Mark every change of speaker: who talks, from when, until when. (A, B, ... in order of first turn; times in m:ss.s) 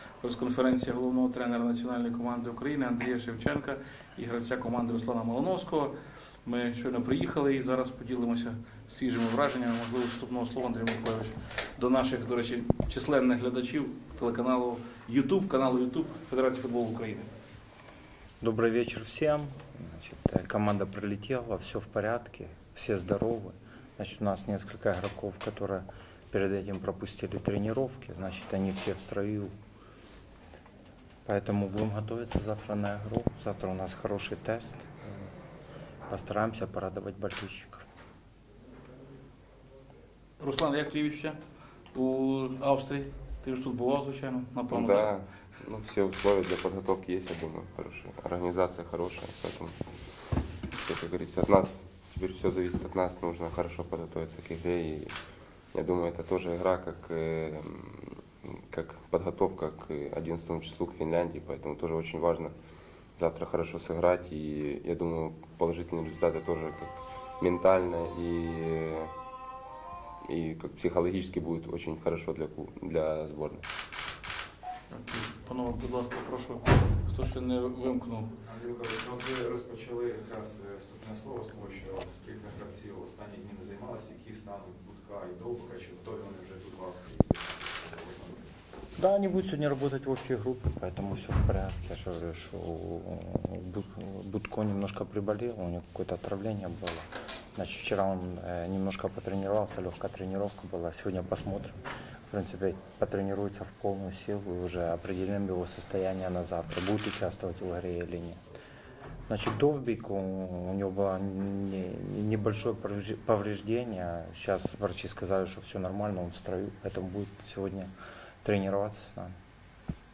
0:00.2-0:05.9 A
0:06.4-0:17.3 A
0:18.4-0:29.5 B
0:31.2-0:35.3 B
0:36.1-0:37.8 B
0:40.4-0:41.4 A
0:41.9-0:45.1 A
0:44.7-0:49.8 C
0:50.8-0:55.1 C
0:55.7-1:02.5 C
1:03.2-1:09.1 C
1:10.2-1:13.6 C
1:14.9-1:18.3 A
1:18.4-1:28.5 D
1:29.0-1:41.8 B
1:42.3-1:48.4 B
1:49.3-1:57.9 B
1:58.4-1:59.3 B